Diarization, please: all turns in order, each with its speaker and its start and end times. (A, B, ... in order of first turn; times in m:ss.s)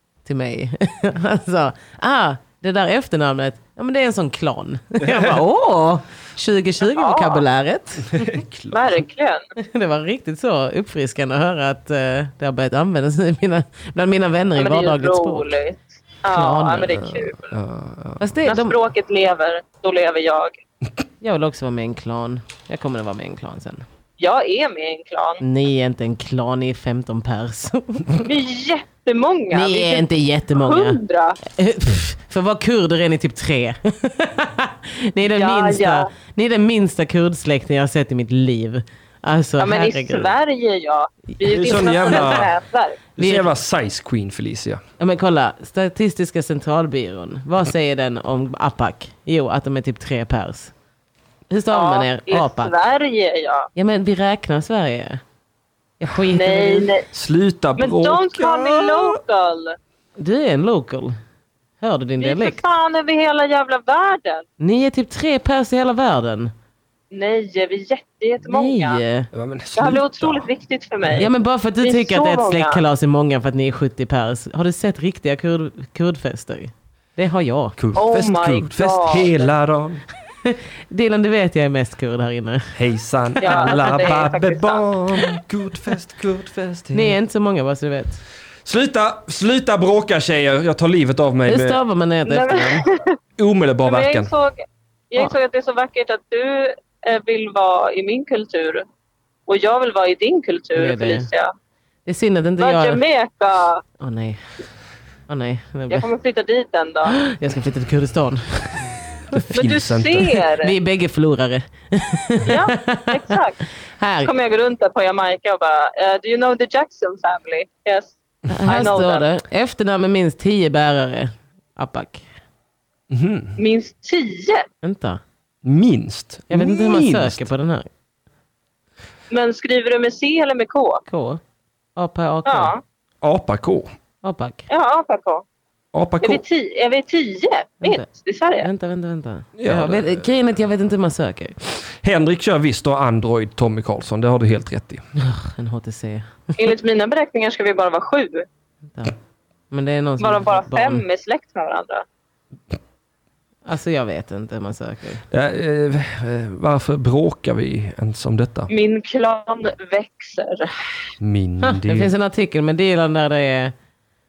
0:00.2-0:08.4 A
0:05.0-0:05.4 B
0:07.0-0:07.4 C
0:08.1-0:09.0 B
0:08.7-0:09.4 C
0:09.6-0:15.5 A
0:14.6-0:17.6 C
0:16.3-0:17.0 A
0:17.0-0:18.4 B
0:18.2-0:18.8 A
0:18.4-0:20.6 C
0:21.2-0:23.8 A
0:24.2-0:25.4 C
0:25.4-0:28.3 A
0:28.2-0:31.4 C
0:29.5-0:40.3 A
0:35.4-0:36.1 C
0:39.6-0:43.0 C
0:41.4-0:42.6 B
0:41.6-0:42.4 A
0:43.2-0:44.8 B
0:43.2-0:43.5 A
0:45.0-0:50.7 A
0:51.5-0:52.7 A
0:51.7-0:53.7 C
0:53.8-0:55.2 A
0:56.0-0:56.9 A
0:56.3-0:57.1 C
0:57.1-0:59.2 B
0:57.8-0:59.8 C
1:00.2-1:01.2 A
1:01.8-1:02.6 A
1:02.2-1:04.4 C
1:04.6-1:06.5 A
1:07.1-1:09.0 C
1:08.4-1:09.3 A
1:09.3-1:10.5 B
1:09.8-1:11.3 C
1:11.2-1:17.8 A
1:11.8-1:12.8 C
1:17.8-1:20.0 B
1:18.0-1:19.5 C
1:20.4-1:22.8 A
1:22.8-1:27.2 B
1:23.4-1:24.0 A
1:23.4-1:24.8 C
1:26.9-1:28.2 A
1:28.6-1:31.8 B
1:31.5-1:32.9 A
1:32.3-1:33.2 C
1:33.4-1:34.3 B
1:33.9-1:38.9 C
1:39.5-1:41.5 C
1:40.8-1:41.3 A
1:42.1-1:43.0 A
1:42.6-1:43.8 C
1:44.0-1:44.4 A
1:45.3-1:46.1 A
1:45.9-1:47.2 C
1:47.1-1:49.4 A
1:49.3-1:50.4 B
1:49.5-1:50.8 C
1:50.6-1:53.2 A
1:52.4-1:53.6 C
1:54.0-1:54.3 A
1:54.2-1:59.3 C
1:58.5-2:02.3 A
2:03.1-2:03.6 B
2:03.6-2:04.7 C
2:04.8-2:05.2 A
2:05.6-2:07.5 B
2:06.5-2:07.9 A
2:09.3-2:11.0 C
2:11.1-2:11.4 A
2:12.0-2:12.7 A
2:12.4-2:12.8 C
2:13.2-2:13.9 B
2:14.2-2:14.6 A
2:14.7-2:15.4 C
2:15.9-2:16.4 B
2:16.2-2:18.7 C
2:18.6-2:21.7 A
2:19.6-2:20.3 B
2:22.0-2:25.0 B
2:25.2-2:26.6 A
2:26.6-2:28.5 C
2:29.7-2:31.0 A
2:30.2-2:32.0 C
2:33.6-2:35.2 A
2:35.3-2:38.7 B
2:38.7-2:40.7 C
2:41.2-2:42.1 B
2:41.6-2:43.7 A